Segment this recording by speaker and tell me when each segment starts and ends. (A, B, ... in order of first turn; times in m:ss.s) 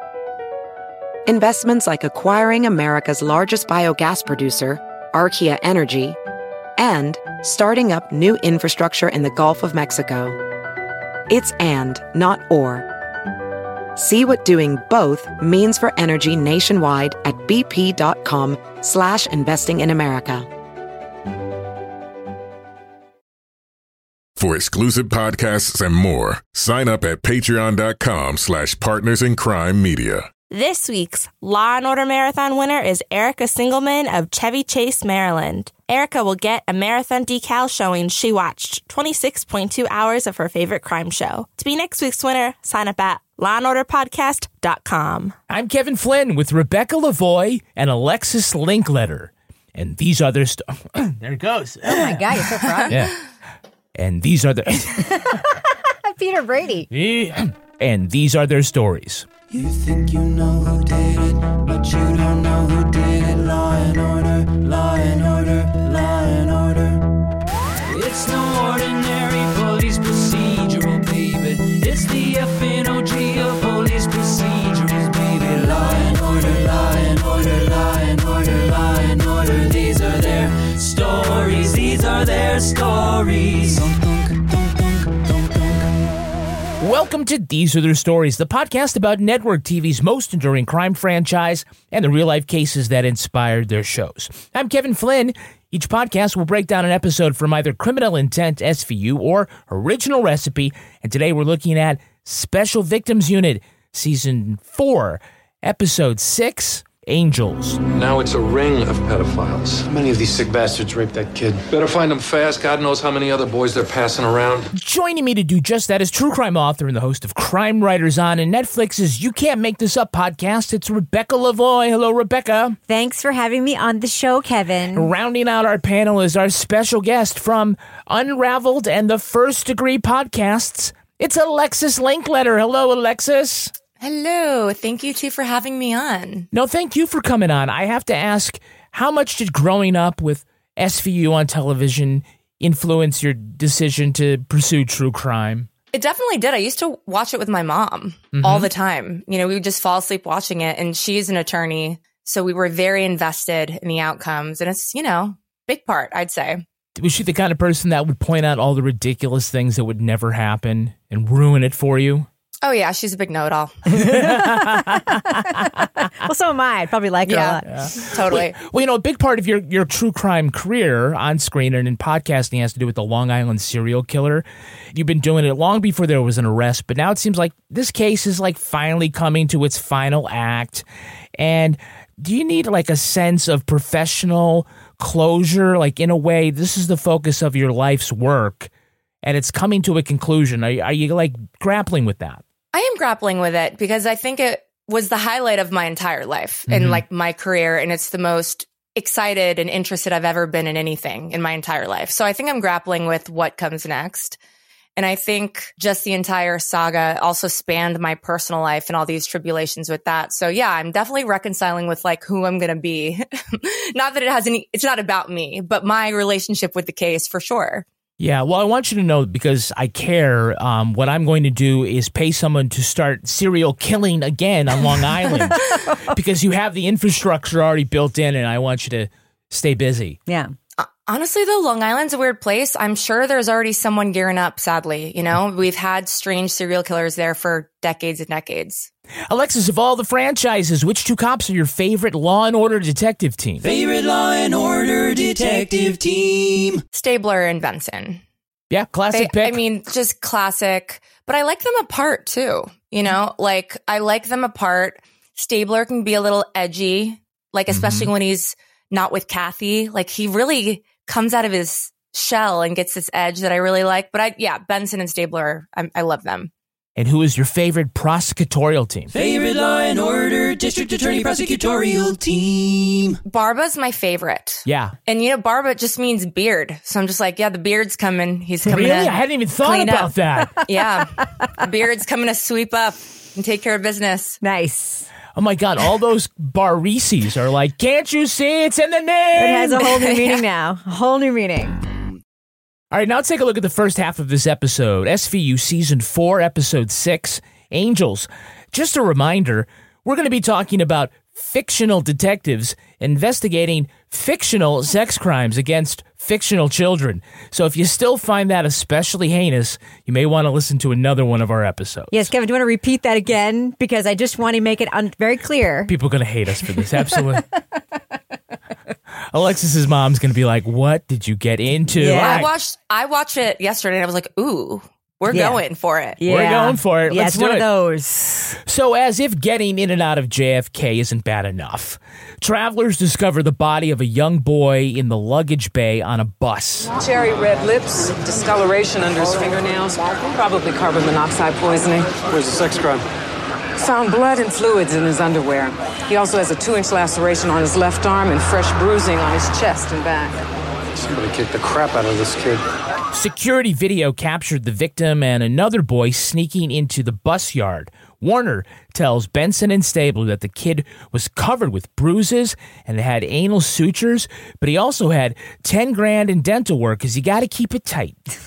0:01.3-0:06.2 A
0:06.8-0:10.4 A
0:11.3-0:12.9 A
0:14.0-0:20.5 A
0:24.4-0:30.3 B
0:30.5-0:45.4 C
0:45.5-0:52.2 D
0:51.8-0:52.9 E
0:52.9-0:53.2 D
0:54.0-0:55.2 D
0:55.1-0:56.9 E
0:56.9-0:59.3 D
0:59.5-1:07.1 F
1:07.9-1:25.9 F
1:26.8-1:47.8 D
1:47.9-1:49.8 G
1:49.8-1:51.6 H
1:51.7-1:54.7 G
1:54.7-2:02.8 D
2:02.9-2:05.1 E
2:04.9-2:13.7 D
2:14.0-2:16.5 I
2:16.5-2:25.7 D
2:25.9-2:36.6 I
2:28.3-2:28.7 D
2:37.0-2:42.3 D
2:42.6-2:43.8 I
2:43.9-2:45.8 D
2:44.0-2:45.6 E
2:46.1-2:47.7 E
2:47.3-2:48.6 I
2:47.7-3:00.8 D
3:01.4-3:08.7 D
3:09.2-3:12.4 D
3:12.7-3:24.4 I
3:16.7-3:17.0 D
3:25.0-3:37.9 I
3:38.2-3:50.2 D
3:45.5-3:46.2 E
3:50.3-3:50.5 E
3:50.8-3:58.9 I
3:59.3-4:03.7 D
4:03.6-4:06.8 F
4:06.9-4:08.2 I
4:08.7-4:09.6 D
4:09.1-4:26.5 I
4:17.7-4:18.1 D
4:27.0-4:29.1 D
4:29.1-4:33.2 F
4:33.2-4:40.1 I
4:34.7-4:34.9 D
4:38.6-4:40.6 D
4:40.6-4:44.4 I
4:44.4-4:45.1 E
4:45.4-4:49.9 D
4:49.4-4:51.8 E
4:52.9-5:12.2 D
5:12.1-5:15.9 E
5:15.9-5:17.4 D
5:19.3-5:22.5 D
5:22.0-5:22.4 E
5:22.1-5:26.2 I
5:25.3-5:25.6 E
5:26.2-5:28.5 E
5:26.2-5:27.7 D
5:28.6-5:36.9 D
5:37.0-5:42.1 J
5:42.2-5:43.1 H
5:43.8-5:50.4 J
5:50.9-5:52.6 H
5:53.1-6:08.2 D